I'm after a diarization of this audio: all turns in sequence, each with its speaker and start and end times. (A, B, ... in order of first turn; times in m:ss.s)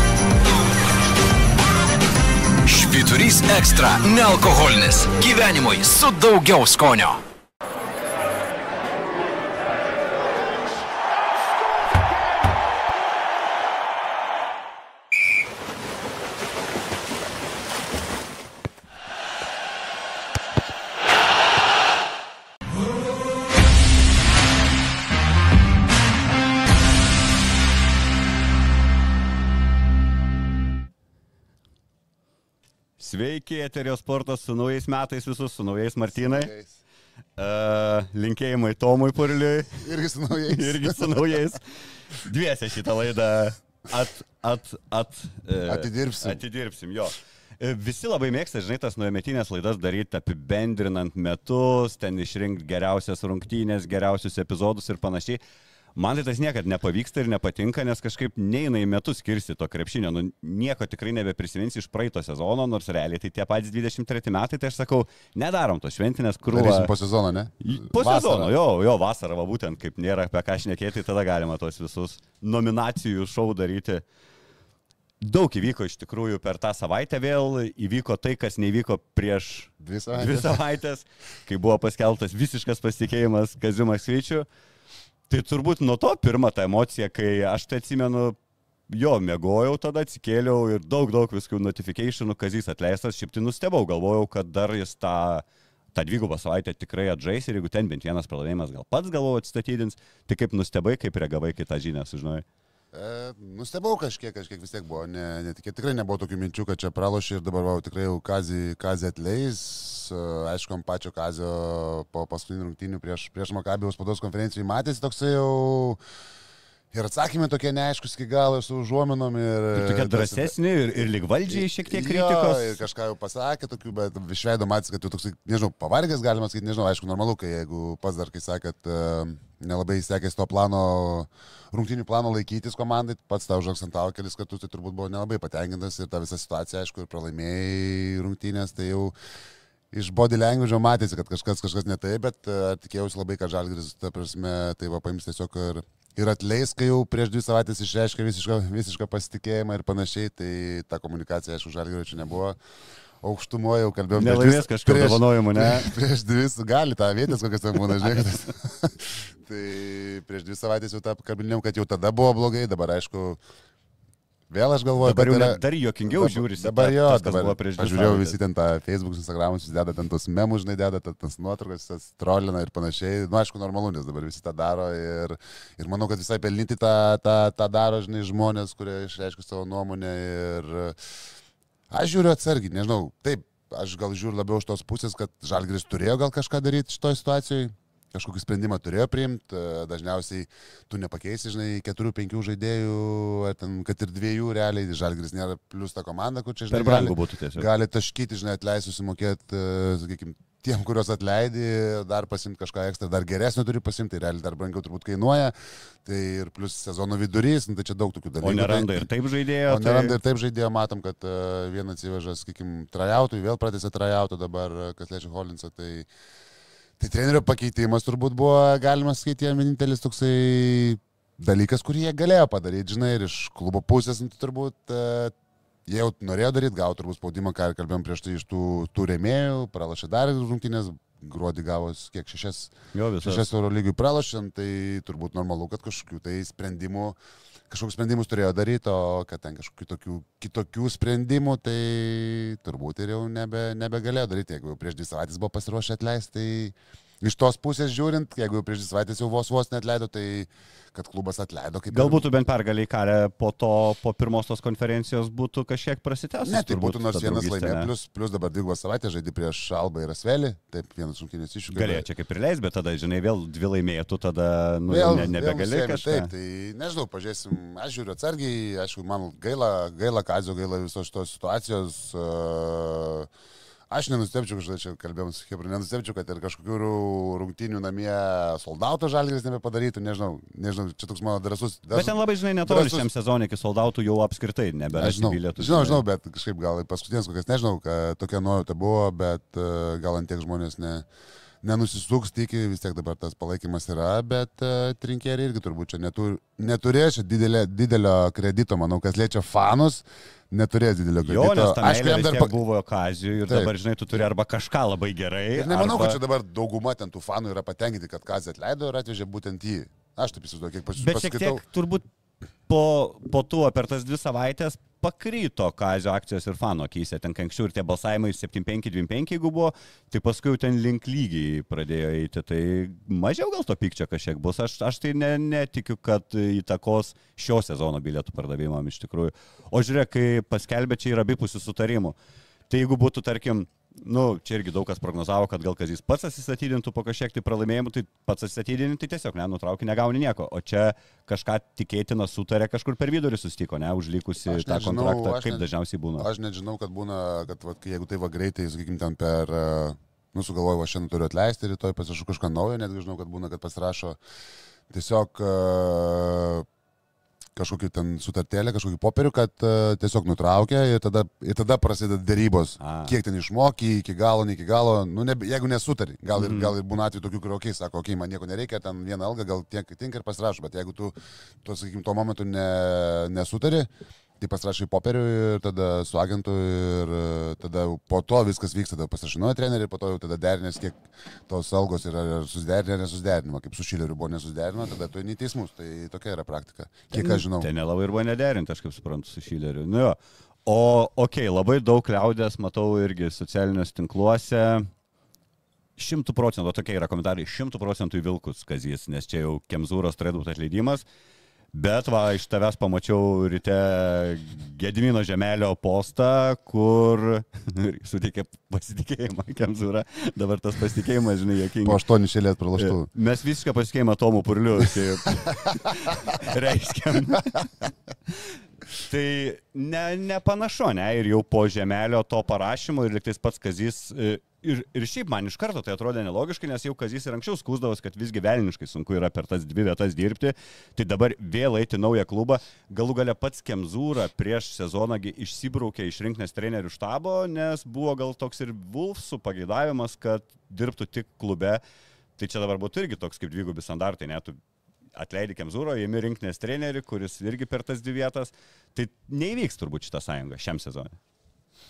0:02.6-0:07.2 A
0:33.0-0:36.5 B
0:36.2-0:36.7 C
0:37.4-0:39.8 B
0:39.8-0:41.2 C
0:40.5-0:55.4 B
0:45.7-0:46.4 C
0:56.0-1:06.9 B
1:06.5-1:08.5 C
1:07.6-1:14.0 B
1:15.2-1:24.5 B
1:19.8-1:20.6 C
1:25.3-1:28.4 B
1:28.9-1:42.4 B
1:42.9-1:56.0 C
1:56.9-2:00.5 C
1:59.7-2:02.8 B
2:01.5-2:19.1 C
2:19.9-2:32.6 C
2:33.2-2:43.4 C
2:34.2-2:36.0 B
2:44.5-3:01.0 C
2:45.0-2:48.4 B
3:01.9-3:29.1 C
3:16.7-3:17.7 B
3:28.4-3:30.2 B
3:29.7-3:36.1 C
3:37.0-3:45.3 C
3:45.9-3:57.2 C
3:52.9-3:53.4 B
3:57.7-4:12.2 C
4:11.9-4:17.9 B
4:16.4-4:22.0 C
4:21.7-4:26.3 B
4:24.9-4:33.3 C
4:33.9-4:43.1 C
4:41.9-4:46.0 B
4:44.9-4:51.0 C
4:51.6-5:02.6 C
5:01.2-5:06.2 B
5:03.5-5:03.7 C
5:05.5-5:11.6 C
5:11.0-5:12.0 B
5:12.7-5:32.2 B
5:32.7-5:46.3 B
5:44.5-5:45.7 C
5:46.2-5:54.2 C
5:54.9-5:56.7 C
5:57.6-6:13.9 C
6:02.8-6:03.2 B
6:06.4-6:06.7 B
6:14.4-6:27.7 C
6:27.1-6:34.9 B
6:36.0-6:41.0 B
6:41.7-6:52.0 B
6:51.8-6:53.1 C
6:52.8-6:57.9 B
6:59.0-7:21.8 B
7:22.4-7:24.6 B
7:25.2-7:31.2 B